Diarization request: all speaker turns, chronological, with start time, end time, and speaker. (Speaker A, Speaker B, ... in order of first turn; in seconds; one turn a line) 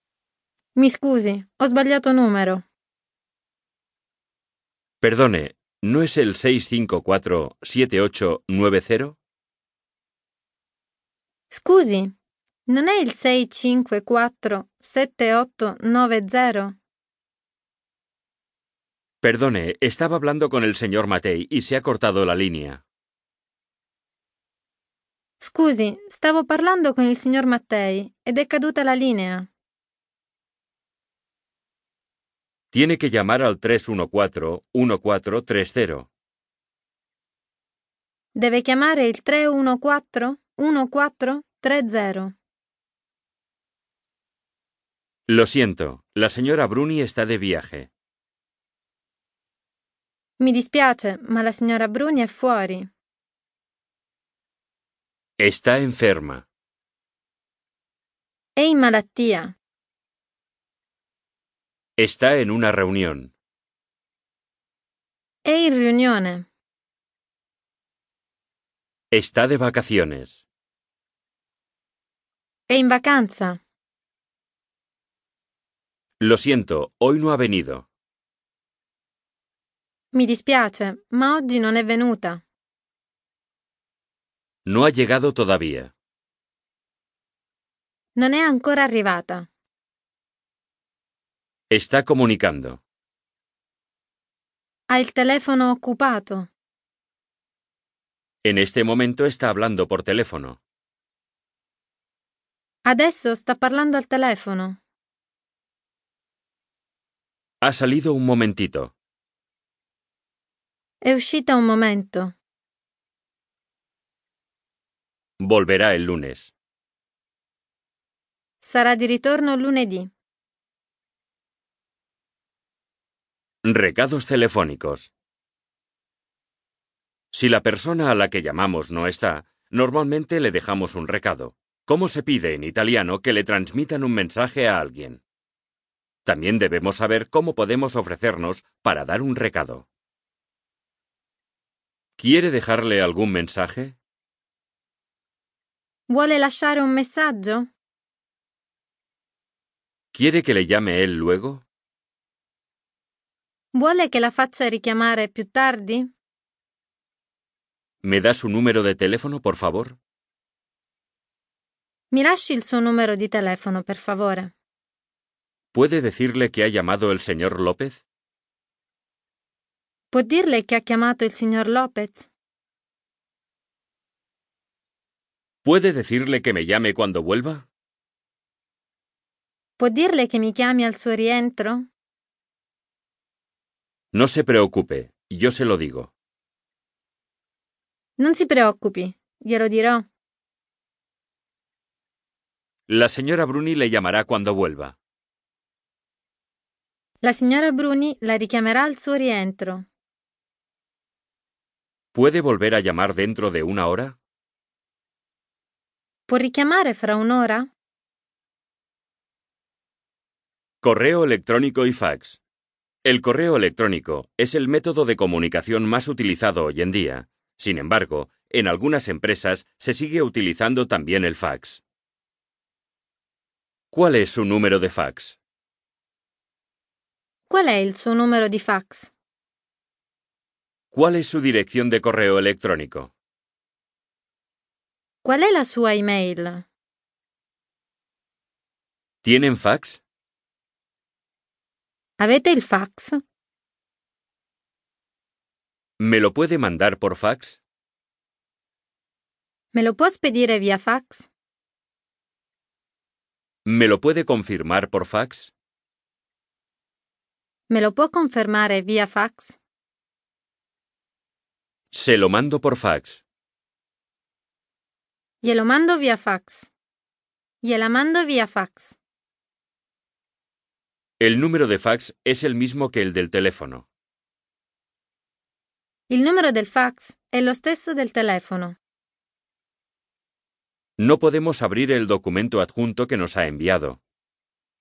Speaker A: 0.8-2.6
Speaker B: 5.0-9.2
Speaker A: 11.5-12.2
Speaker A: 12.7-16.8
Speaker B: 19.2-22.8
Speaker A: 25.4-29.5
Speaker B: 32.7-36.1
Speaker A: 38.4-42.4
Speaker B: 45.3-47.9
Speaker A: 50.4-52.9
Speaker B: 55.4-56.5
Speaker A: 58.6-59.6
Speaker B: 62.0-63.3
Speaker A: 65.4-66.5
Speaker B: 69.1-70.5
Speaker A: 72.7-73.6
Speaker B: 76.2-77.9
Speaker A: 80.1-82.4
Speaker B: 84.7-85.9
Speaker A: 88.2-89.5
Speaker B: 91.7-92.8
Speaker A: 94.9-96.5
Speaker B: 98.4-100.6
Speaker A: 102.8-104.8
Speaker B: 107.6-108.9
Speaker A: 111.0-112.3
Speaker B: 115.4-116.5
Speaker A: 118.6-120.1
Speaker B: 123.6-125.1
Speaker B: 127.3-135.2
Speaker B: 136.2-139.9
Speaker B: 142.2-144.0
Speaker A: 146.1-147.7
Speaker B: 150.1-151.7
Speaker A: 153.7-156.1
Speaker B: 158.0-160.0
Speaker A: 162.1-164.5
Speaker B: 165.7-168.0
Speaker A: 170.1-172.3
Speaker B: 175.6-177.7
Speaker A: 179.8-181.9
Speaker B: 184.1-186.1
Speaker A: 188.2-190.1
Speaker B: 192.9-195.0
Speaker A: 197.2-199.9
Speaker B: 202.1-204.2
Speaker A: 206.3-207.7
Speaker B: 210.8-212.4
Speaker B: 213.0-221.8
Speaker B: 223.9-225.4
Speaker A: 227.5-229.1
Speaker B: 230.9-233.1
Speaker A: 235.2-236.7
Speaker B: 239.2-240.0
Speaker A: 242.2-243.2
Speaker B: 246.0-247.6
Speaker A: 249.7-251.3
Speaker B: 253.7-255.5
Speaker A: 257.7-259.6
Speaker B: 261.9-263.2
Speaker A: 265.4-266.7
Speaker A: 267.6-269.0
Speaker B: 271.2-273.9
Speaker A: 276.1-278.8
Speaker B: 281.0-284.0